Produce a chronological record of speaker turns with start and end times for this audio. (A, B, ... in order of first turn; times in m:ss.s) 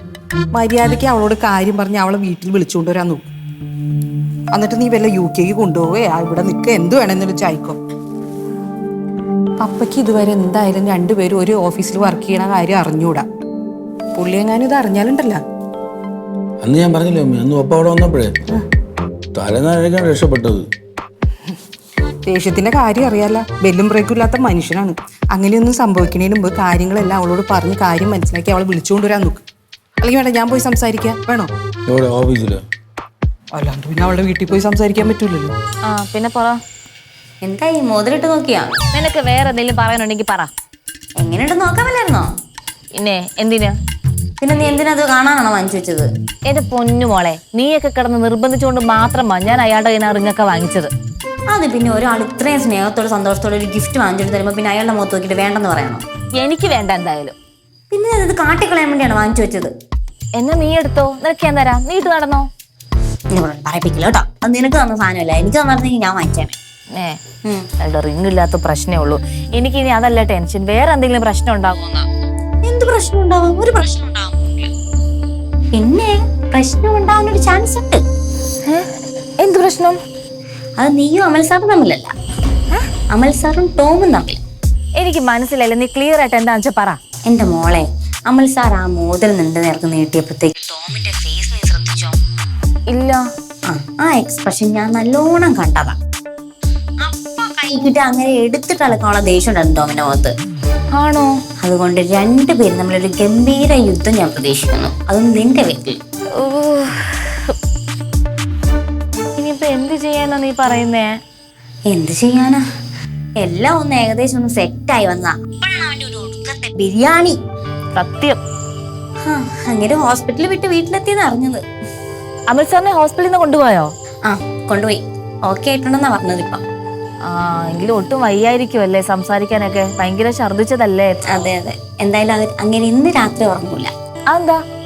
0:00.5-0:03.3 A
0:04.5-0:07.8 A
0:09.6-0:13.2 A
0:14.2-0:15.4 A
0:16.6-0:18.3 B
0:19.3-0:20.7 B
0:22.2-0:29.4 A
0:30.0-0:31.5 A
0:31.9-0:32.6 B
0:33.5-0:35.5 A
0:35.9-0:36.6 C
0:37.4-0:38.7 D
0:38.9-0:40.5 C
0:41.2-0:42.3 D
0:42.9-0:43.8 C
0:44.4-0:46.1 D
0:46.5-0:50.9 C
0:51.5-0:56.0 D
0:56.4-0:57.4 C
0:57.9-0:59.7 D
1:00.4-1:02.5 C
1:03.3-1:06.5 D
1:07.8-1:12.0 C
1:12.6-1:14.7 D
1:15.7-1:18.0 D
1:19.4-1:20.0 C
1:20.8-1:22.1 D
1:23.1-1:24.4 D
1:25.0-1:27.0 C
1:27.3-1:32.2 D
1:32.9-1:33.2 C
1:33.7-1:36.0 D
1:37.0-1:40.3 D
1:41.0-1:41.3 C
1:41.6-1:46.0 D
1:46.4-1:47.5 C
1:49.4-1:51.1 C
1:51.9-1:52.6 D
1:53.4-1:57.4 D
1:58.0-1:58.4 C
1:59.2-2:01.6 D
2:02.5-2:03.9 C
2:04.3-2:06.6 D
2:07.3-2:11.5 C
2:11.3-2:13.9 D
2:14.3-2:14.6 C